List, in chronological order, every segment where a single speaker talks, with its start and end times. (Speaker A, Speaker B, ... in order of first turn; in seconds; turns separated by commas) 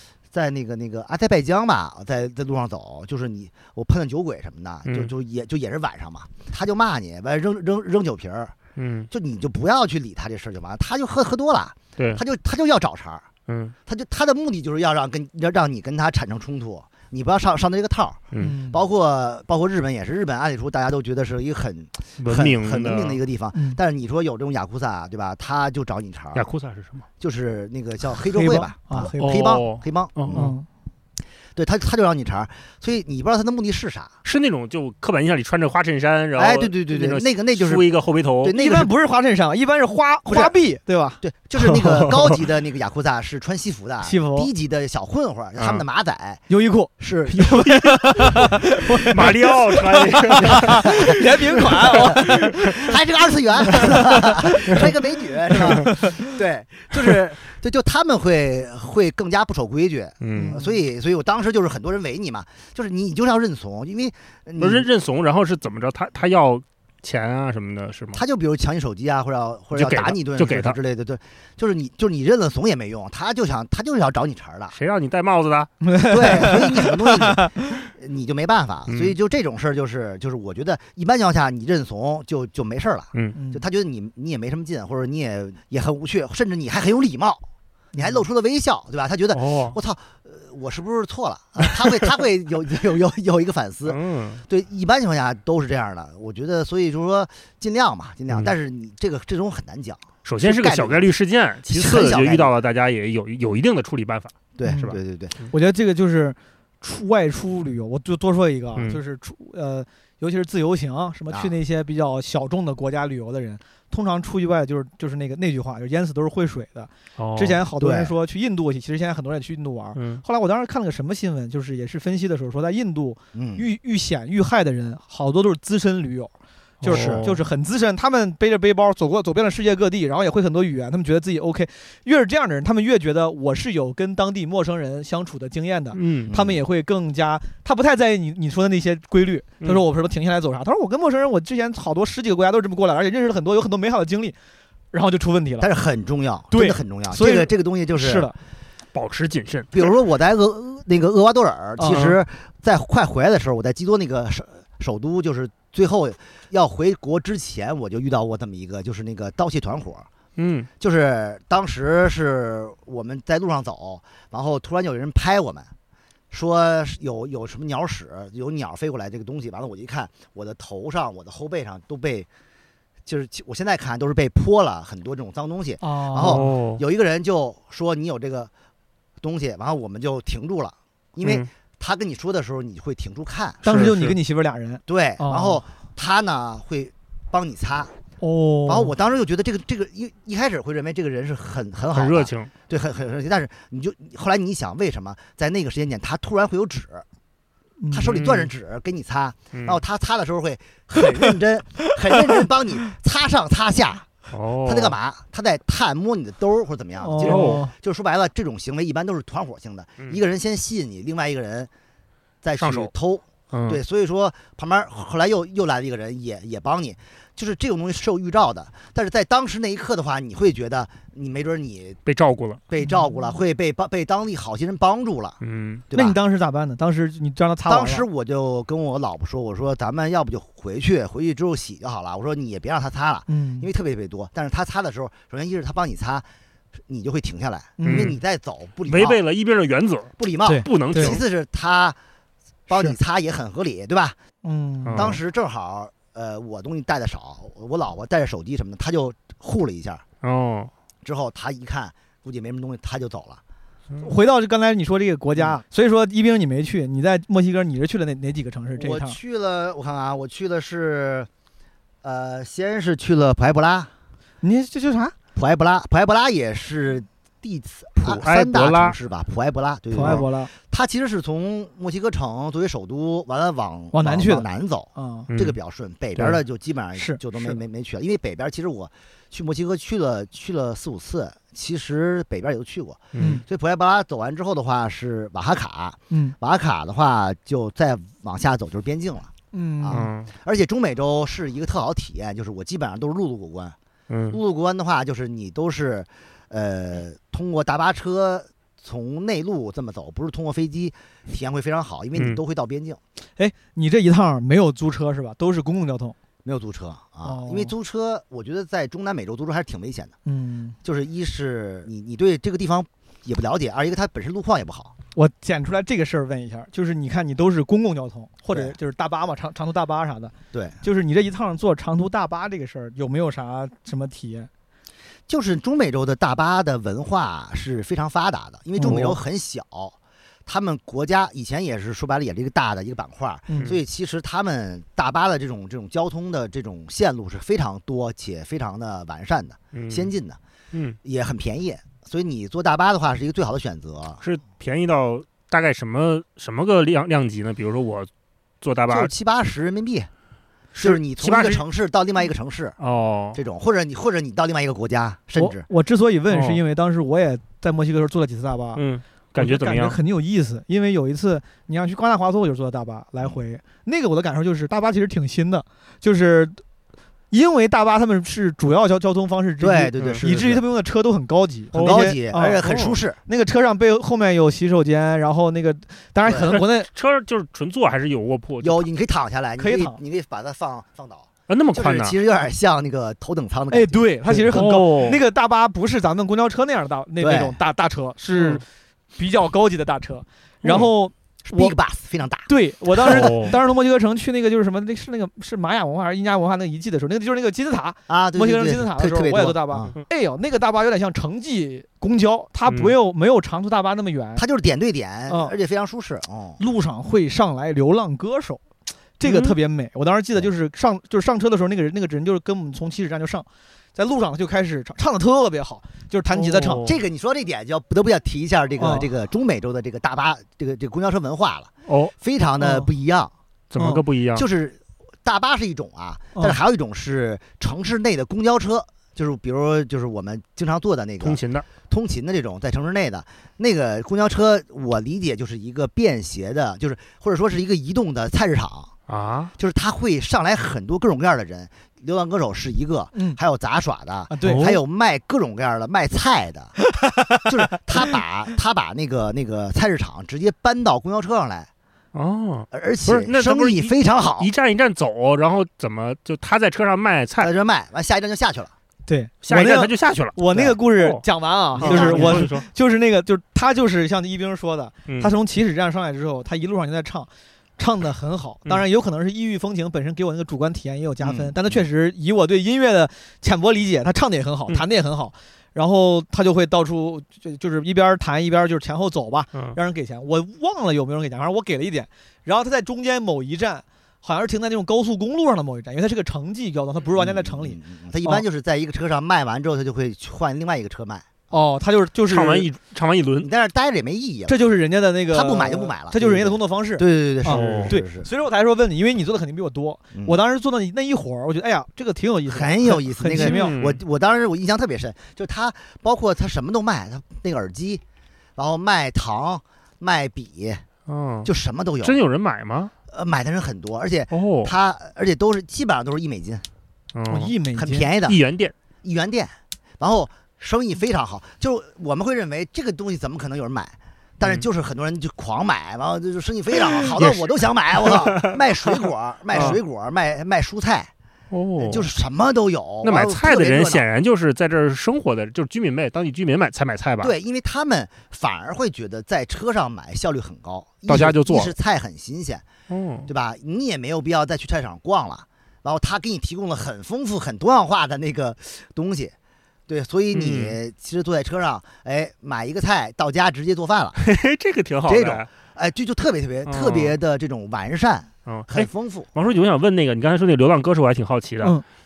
Speaker A: 0.3-8.6, Speaker B: 4.9-5.1, Speaker B: 8.8-9.1, Speaker A: 9.1-13.3, Speaker B: 13.5-13.7, Speaker A: 13.9-26.5, Speaker C: 18.4-18.8, Speaker B: 22.2-23.2, Speaker C: 23.5-23.8, Speaker B: 26.3-27.1, Speaker A: 27.2-30.5, Speaker C: 28.3-29.6, Speaker B: 29.0-30.5, Speaker C: 30.3-30.7, Speaker A: 31.6-34.1, Speaker B: 34.2-38.6, Speaker A: 36.4-37.9, Speaker A: 38.4-38.9, Speaker C: 38.6-41.2, Speaker A: 40.3-40.6, Speaker A: 41.2-46.5, Speaker B: 41.7-42.4, Speaker C: 44.0-44.5, Speaker B: 45.6-45.8, Speaker C: 46.5-52.8, Speaker A: 47.0-47.6, Speaker B: 47.4-51.0, Speaker A: 50.4-64.9, Speaker B: 52.0-52.5, Speaker C: 53.8-54.7, Speaker C: 55.8-56.3, Speaker B: 60.2-60.6, Speaker C: 60.4-60.8, Speaker B: 64.6-68.2, Speaker A: 68.1-74.8, Speaker B: 69.8-70.8, Speaker B: 74.7-76.6, Speaker C: 75.8-77.8, Speaker A: 76.0-101.1, Speaker B: 78.9-79.1, Speaker C: 83.3-83.6, Speaker C: 87.9-88.2, Speaker B: 89.3-89.8, Speaker B: 93.9-94.4, Speaker B: 100.2-105.0, Speaker A: 101.7-102.5, Speaker A: 104.6-105.3, Speaker C: 104.6-105.0, Speaker C: 105.5-126.3, Speaker B: 117.2-117.6, Speaker A: 117.8-118.1, Speaker B: 120.0-120.2, Speaker A: 123.3-123.7, Speaker B: 126.8-127.4, Speaker C: 126.8-144.3, Speaker A: 126.9-127.2, Speaker B: 135.9-136.3, Speaker A: 136.3-136.6, Speaker C: 144.9-145.7, Speaker A: 145.6-148.3, Speaker C: 146.5-148.4, Speaker B: 148.9-149.8, Speaker A: 149.7-160.1, Speaker C: 151.8-152.1, Speaker B: 151.9-152.2, Speaker B: 160.4-160.7, Speaker A: 160.8-165.7, Speaker A: 166.3-172.3, Speaker A: 173.1-178.5, Speaker C: 175.8-176.5, Speaker B: 176.2-176.8, Speaker A: 179.2-183.6, Speaker B: 183.7-184.2, Speaker C: 183.7-185.6, Speaker A: 184.9-187.9, Speaker C: 188.2-188.9, Speaker A: 188.7-197.1, Speaker B: 191.9-192.5, Speaker C: 197.8-198.1, Speaker A: 197.9-204.1, Speaker B: 198.1-198.5, Speaker B: 199.5-199.8, Speaker B: 204.3-204.9, Speaker A: 204.7-211.7, Speaker C: 207.0-207.7, Speaker B: 207.2-207.6, Speaker A: 212.4-222.0, Speaker B: 212.6-212.9, Speaker B: 213.5-213.8, Speaker B: 222.1-222.6, Speaker A: 222.7-225.4, Speaker B: 225.4-225.8, Speaker A: 225.9-226.2, Speaker C: 225.9-228.1, Speaker A: 227.7-236.3, Speaker C: 233.3-233.7, Speaker A: 236.9-239.2, Speaker C: 237.8-238.1, Speaker B: 237.8-238.2, Speaker B: 238.9-241.2, Speaker A: 240.2-242.0, Speaker C: 240.4-241.2, Speaker A: 242.7-244.2, Speaker C: 244.4-245.1, Speaker B: 244.9-245.2, Speaker A: 244.9-250.1, Speaker B: 250.2-250.7, Speaker A: 251.0-253.4, Speaker C: 254.0-259.2, Speaker A: 258.8-261.3, Speaker A: 262.0-263.9, Speaker C: 264.4-265.1, Speaker A: 265.4-293.8, Speaker B: 268.0-269.0, Speaker C: 269.9-270.5, Speaker B: 270.0-270.2, Speaker C: 273.9-275.3, Speaker B: 275.3-275.6, Speaker C: 276.9-277.6, Speaker B: 283.1-283.4, Speaker C: 283.2-283.4, Speaker C: 289.5-290.1, Speaker B: 289.9-290.3, Speaker B: 294.1-294.4, Speaker A: 294.3-303.0, Speaker C: 303.4-306.2, Speaker A: 306.4-310.1, Speaker C: 307.2-307.7, Speaker C: 310.3-310.8, Speaker A: 310.8-314.9, Speaker C: 315.1-324.5, Speaker A: 320.5-320.8, Speaker A: 325.3-340.4, Speaker C: 328.8-329.2, Speaker C: 333.5-333.8, Speaker B: 339.7-340.1, Speaker A: 341.0-344.2, Speaker B: 344.2-348.1, Speaker B: 348.6-349.1, Speaker A: 348.9-350.1, Speaker B: 350.7-351.6, Speaker A: 350.8-352.8, Speaker B: 352.8-353.4, Speaker A: 353.4-355.7, Speaker C: 355.4-358.8, Speaker B: 356.3-356.6, Speaker B: 358.8-360.0, Speaker C: 359.4-366.6, Speaker C: 367.3-372.6, Speaker A: 369.6-370.6, Speaker B: 370.0-370.3, Speaker B: 371.7-373.0, Speaker A: 371.8-373.2, Speaker C: 373.3-376.9, Speaker A: 376.2-376.6, Speaker B: 376.5-378.9, Speaker A: 378.6-384.4, Speaker C: 379.6-380.0, Speaker B: 381.5-382.2, Speaker C: 383.7-388.6, Speaker B: 384.5-385.2, Speaker A: 387.2-387.6, Speaker B: 388.4-388.6, Speaker C: 389.2-391.8, Speaker B: 390.6-390.9, Speaker A: 391.4-393.4, Speaker C: 392.5-404.4, Speaker B: 393.0-393.5, Speaker A: 398.1-399.9, Speaker B: 402.7-402.9, Speaker A: 404.4-406.6, Speaker C: 405.3-405.5, Speaker C: 406.6-408.6, Speaker C: 409.2-416.9, Speaker B: 409.2-409.6, Speaker B: 416.3-417.0, Speaker A: 416.8-423.3, Speaker C: 418.8-419.1, Speaker B: 421.9-422.1, Speaker C: 422.6-422.9, Speaker B: 423.7-424.5, Speaker A: 424.4-438.9, Speaker B: 431.2-431.7, Speaker B: 439.1-439.5, Speaker A: 439.6-446.8, Speaker C: 443.1-443.4, Speaker C: 444.3-444.7, Speaker B: 444.4-444.8, Speaker C: 446.8-447.8, Speaker A: 447.4-451.7, Speaker B: 452.1-457.5, Speaker A: 452.7-454.5, Speaker A: 457.4-458.7, Speaker C: 459.1-488.4, Speaker B: 459.4-461.2, Speaker A: 461.8-462.5, Speaker B: 461.8-462.7, Speaker A: 471.2-471.6, Speaker A: 487.2-491.3, Speaker C: 491.5-492.7, Speaker B: 492.3-493.5, Speaker A: 493.4-494.6, Speaker C: 494.5-503.8, Speaker A: 495.3-498.3, Speaker B: 497.5-497.9, Speaker A: 500.1-500.4, Speaker A: 502.5-508.0, Speaker B: 503.3-504.0, Speaker A: 508.6-510.9, Speaker B: 511.1-511.5, Speaker A: 511.4-512.2, Speaker B: 512.0-512.9, Speaker A: 513.1-516.7, Speaker B: 514.3-514.7, Speaker B: 517.1-517.5, Speaker C: 517.3-518.1, Speaker A: 517.8-518.4, Speaker B: 518.2-518.7, Speaker A: 519.0-531.1, Speaker B: 527.0-529.8, Speaker B: 531.5-532.1, Speaker A: 531.8-534.1, Speaker B: 533.0-537.3, Speaker A: 537.2-542.6, Speaker B: 541.1-541.7, Speaker B: 542.9-543.3, Speaker A: 543.3-549.4, Speaker A: 549.9-554.2, Speaker B: 550.3-550.8, Speaker B: 554.2-555.5, Speaker A: 555.1-559.3, Speaker B: 556.7-557.1, Speaker B: 558.5-561.8